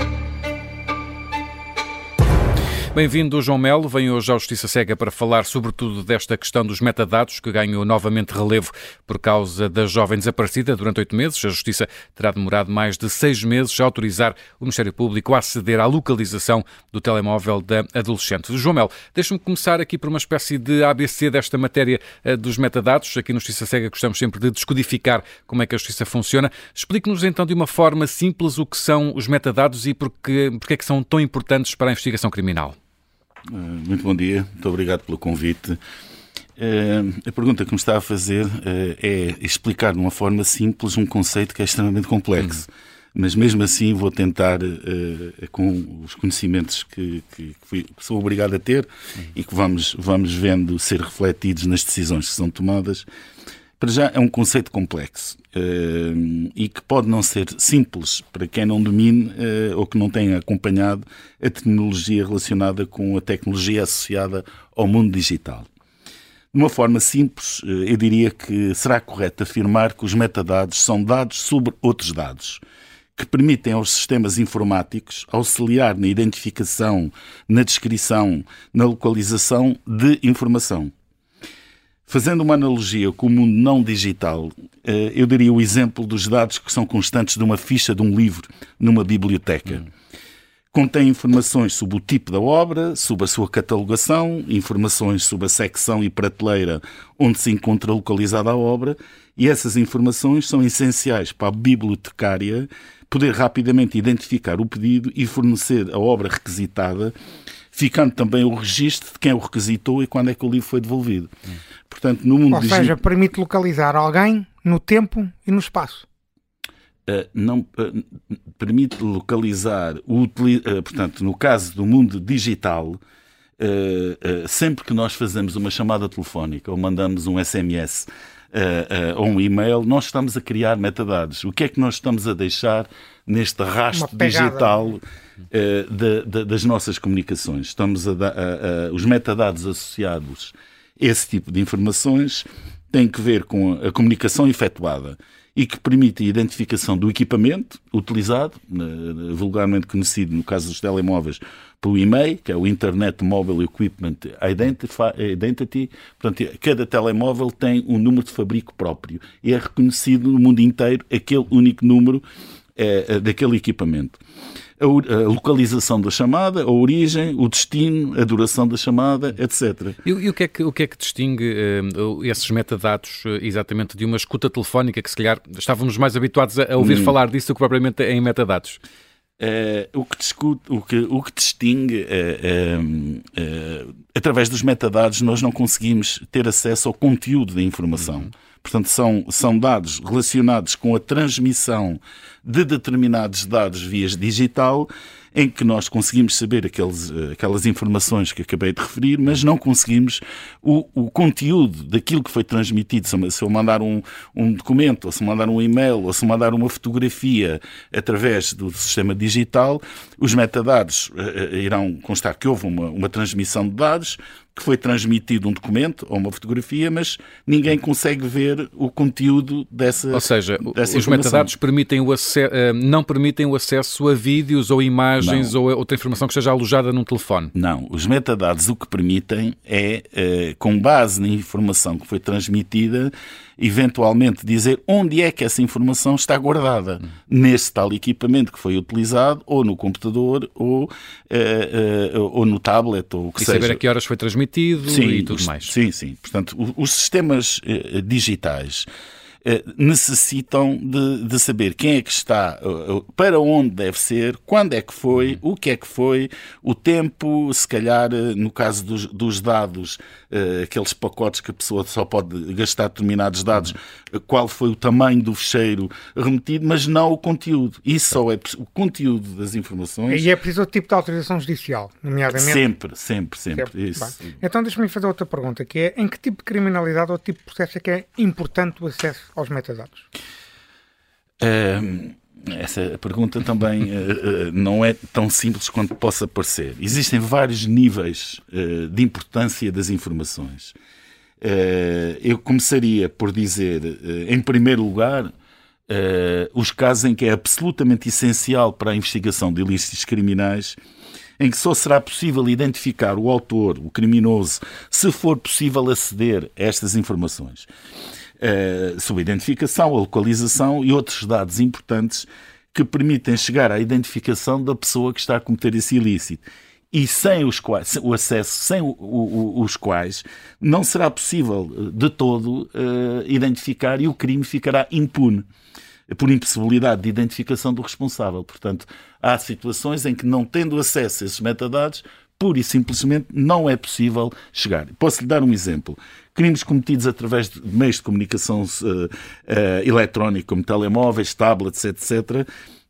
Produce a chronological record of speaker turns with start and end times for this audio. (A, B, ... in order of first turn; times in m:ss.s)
0:02.9-0:32.8 A
0:33.5-0:35.8 B
0:36.6-0:53.1 B
0:53.8-1:05.7 B
1:06.5-1:12.6 B
1:13.2-1:20.9 B
1:22.1-1:29.9 B
1:30.7-1:47.1 B
1:47.7-1:51.3 B
1:51.9-1:53.0 B
1:52.5-1:56.0 C
1:57.0-2:03.0 B
2:03.6-2:42.2 B
2:13.9-2:14.7 C
2:42.8-2:44.2 B
2:44.8-2:50.0 B
2:50.0-2:58.8 A
2:56.8-2:57.1 B
2:59.4-3:41.5 B
3:40.1-3:47.5 A
3:45.2-3:45.5 B
3:47.5-4:03.8 B
4:03.4-4:05.7 A
4:04.8-4:08.9 B
4:09.4-4:30.3 B
4:30.1-4:32.6 C
4:32.3-4:34.3 B
4:33.6-4:40.1 C
4:41.4-4:50.7 B
4:51.4-4:55.3 B
4:55.9-5:00.8 B
5:01.4-5:07.7 B
5:08.4-5:25.4 B
5:26.1-5:42.5 B